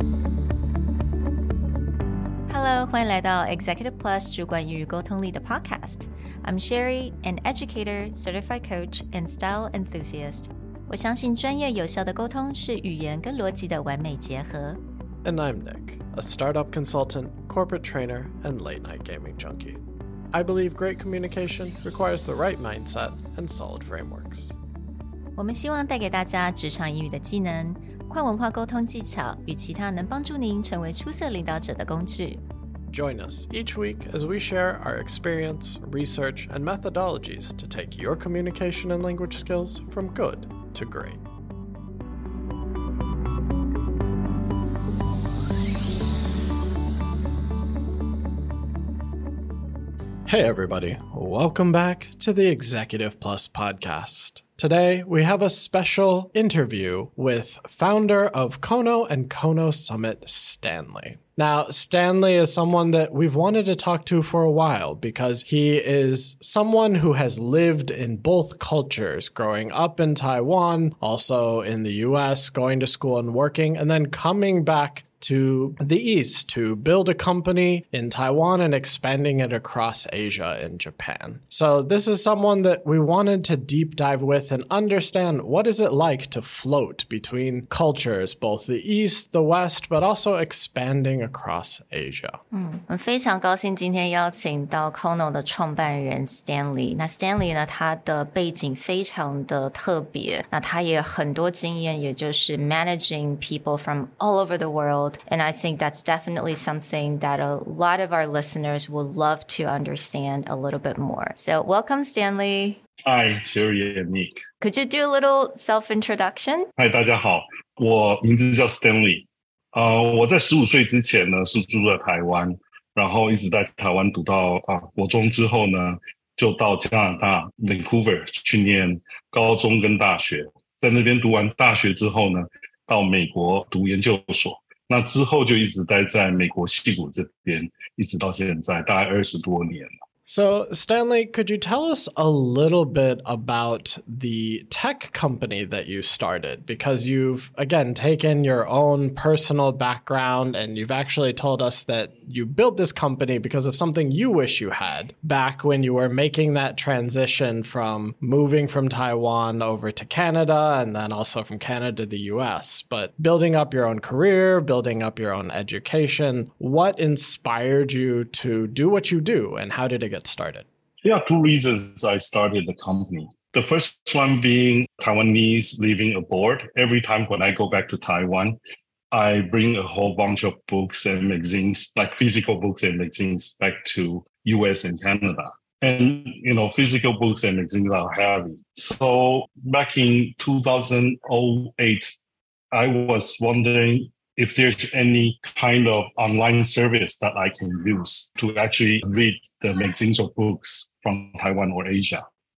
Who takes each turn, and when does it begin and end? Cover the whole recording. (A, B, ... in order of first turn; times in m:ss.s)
0:02.5-0:14.8 A
0:15.2-0:24.5 B
0:25.4-0:32.4 A
0:32.9-0:41.2 B
0:50.2-1:32.4 B
1:32.5-1:52.8 A
1:53.0-1:54.4 C
1:54.6-1:56.7 A
1:56.8-2:19.9 C
2:20.2-2:50.7 B
2:51.0-2:58.6 C
2:59.1-3:12.1 C
3:12.7-3:22.2 C